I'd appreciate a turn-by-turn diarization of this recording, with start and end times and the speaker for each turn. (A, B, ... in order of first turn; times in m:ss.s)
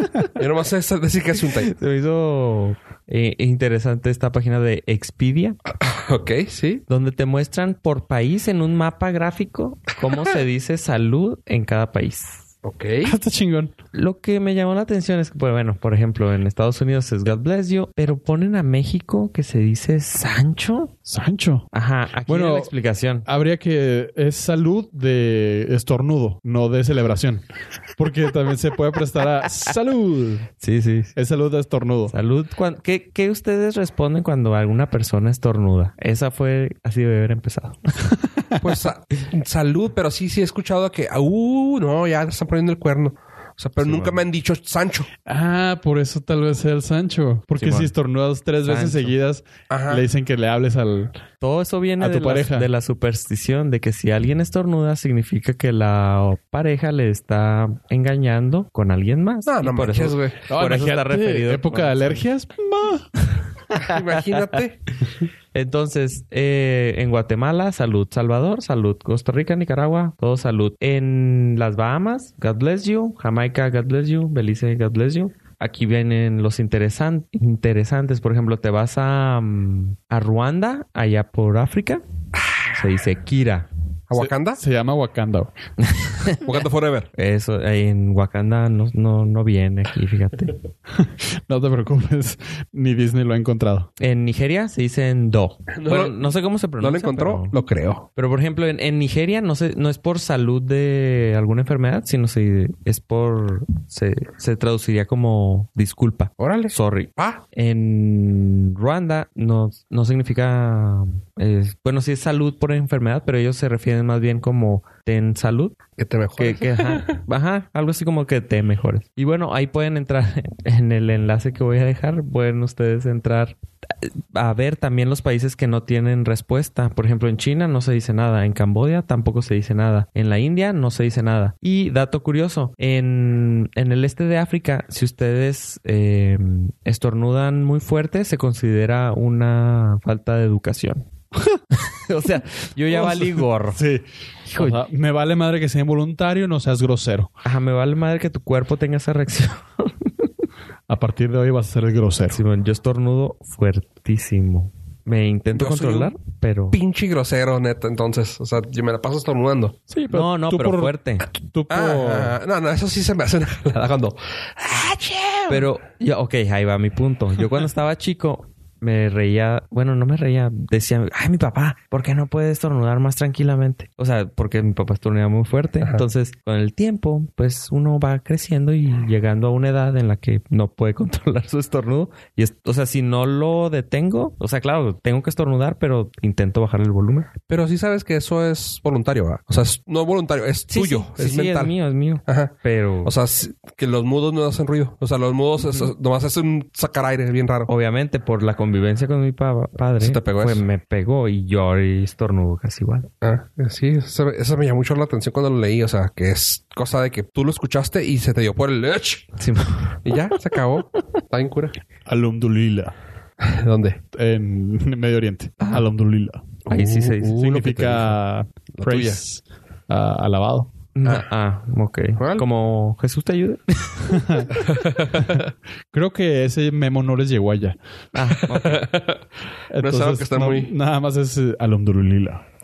0:00.4-0:01.7 A
0:01.5-0:05.6 B
0:05.8-0:06.8 A
0:06.9-0:12.5 B
0:12.6-0:13.1 A
0:13.0-0:13.7 C
0:13.9-0:20.9 B
0:21.1-0:21.7 C
0:21.7-0:23.3 B
0:22.3-0:22.7 C
0:23.3-0:27.4 C
0:28.0-0:30.5 C
0:30.6-0:31.1 B
0:31.2-0:32.1 C
0:32.1-0:38.1 B
0:38.6-0:45.1 A
0:43.8-0:44.2 B
0:45.3-0:51.1 C
0:47.6-0:47.9 B
0:48.7-0:49.1 B
0:49.7-0:50.0 A
0:51.4-1:02.2 B
0:52.0-0:52.7 C
0:59.4-1:00.4 A
1:00.5-1:03.2 C
1:03.7-1:04.4 B
1:03.8-1:04.8 A
1:05.5-1:22.0 B
1:22.7-1:23.7 B
1:24.1-1:24.6 A
1:24.1-1:25.5 C
1:25.8-1:26.4 B
1:26.4-1:27.1 A
1:27.1-1:30.6 B
1:30.9-1:33.9 C
1:34.0-1:37.5 B
1:35.7-1:38.1 A
1:38.2-1:55.8 B
1:46.4-1:47.4 A
1:56.0-1:57.2 A
1:56.4-2:21.1 B
2:21.7-2:23.8 B
2:22.9-2:27.3 C
2:24.5-2:24.8 B
2:27.4-2:30.3 B
2:30.9-2:32.4 C
2:32.3-2:36.8 B
2:35.6-2:36.1 A
2:36.7-2:39.8 A
2:39.9-2:42.4 C
2:40.1-2:41.3 B
2:41.7-2:45.7 A
2:45.5-3:07.3 B
3:07.5-3:11.7 A
3:10.7-3:13.1 B
3:12.3-3:17.7 A
3:17.7-3:23.1 B
3:20.0-3:20.6 A
3:23.2-3:29.3 A
3:29.4-3:30.0 B
3:30.0-3:31.8 A
3:32.1-3:32.9 C
3:33.4-3:34.0 A
3:34.1-3:36.6 C
3:36.7-3:38.1 B
3:36.7-3:37.8 A
3:37.3-3:40.7 C
3:38.8-3:39.2 A
3:41.0-3:44.6 B
3:42.2-3:42.5 A
3:44.1-3:44.5 C
3:44.6-3:45.4 A
3:45.1-3:47.8 C
3:48.1-3:48.9 B
3:48.5-3:49.2 A
3:49.7-3:52.4 C
3:49.8-3:50.7 A